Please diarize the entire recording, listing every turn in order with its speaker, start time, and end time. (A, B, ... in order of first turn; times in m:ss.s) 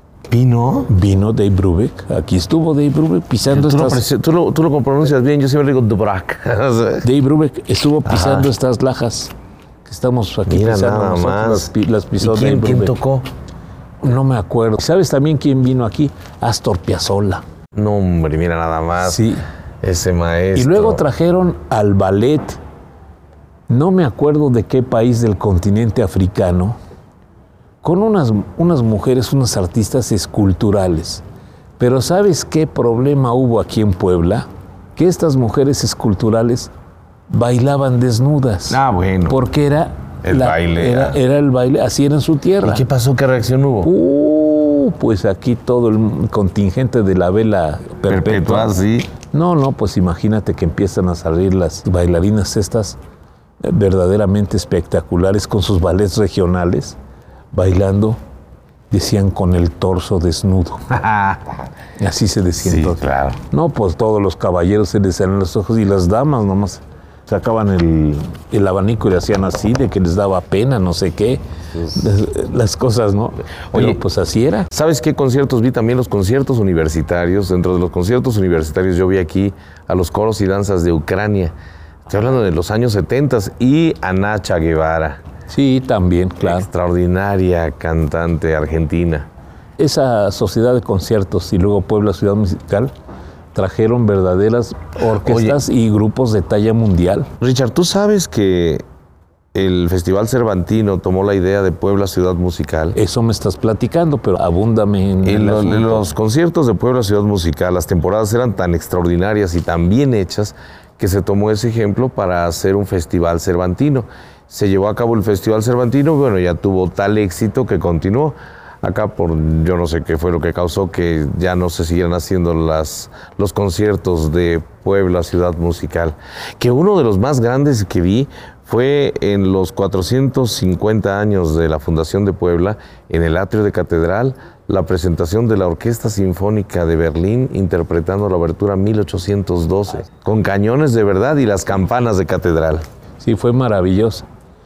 0:00.3-0:00.9 A
0:00.9-0:04.0 B
0:03.5-0:07.1 A
0:07.0-0:09.3 B
0:08.0-0:08.5 A
0:09.8-0:12.9 B
0:10.5-0:13.3 A
0:14.0-0:17.4 B
0:17.7-0:19.2 A
0:19.0-0:19.4 B
0:19.8-0:21.0 A
0:20.5-0:22.6 B
0:23.7-0:26.8 B
0:27.8-0:31.2 B
0:31.8-0:36.7 B
0:37.3-0:42.8 B
0:38.7-0:39.4 A
0:40.2-0:41.2 A
0:42.6-0:43.9 A
0:43.8-0:48.7 B
0:48.1-0:49.1 A
0:49.2-0:53.0 B
0:53.6-0:57.0 B
0:57.5-0:58.2 B
0:58.9-1:00.8 B
1:00.9-1:01.6 A
1:02.0-1:14.7 B
1:02.6-1:03.4 A
1:13.7-1:14.0 A
1:14.7-1:21.5 A
1:22.1-1:25.2 A
1:25.5-1:26.7 B
1:26.4-1:29.3 A
1:29.8-1:32.9 B
1:33.5-1:37.3 B
1:35.2-1:35.6 A
1:37.4-1:38.8 A
1:39.5-1:43.0 A
1:42.9-1:46.0 B
1:45.2-2:22.8 A
2:23.2-2:24.2 B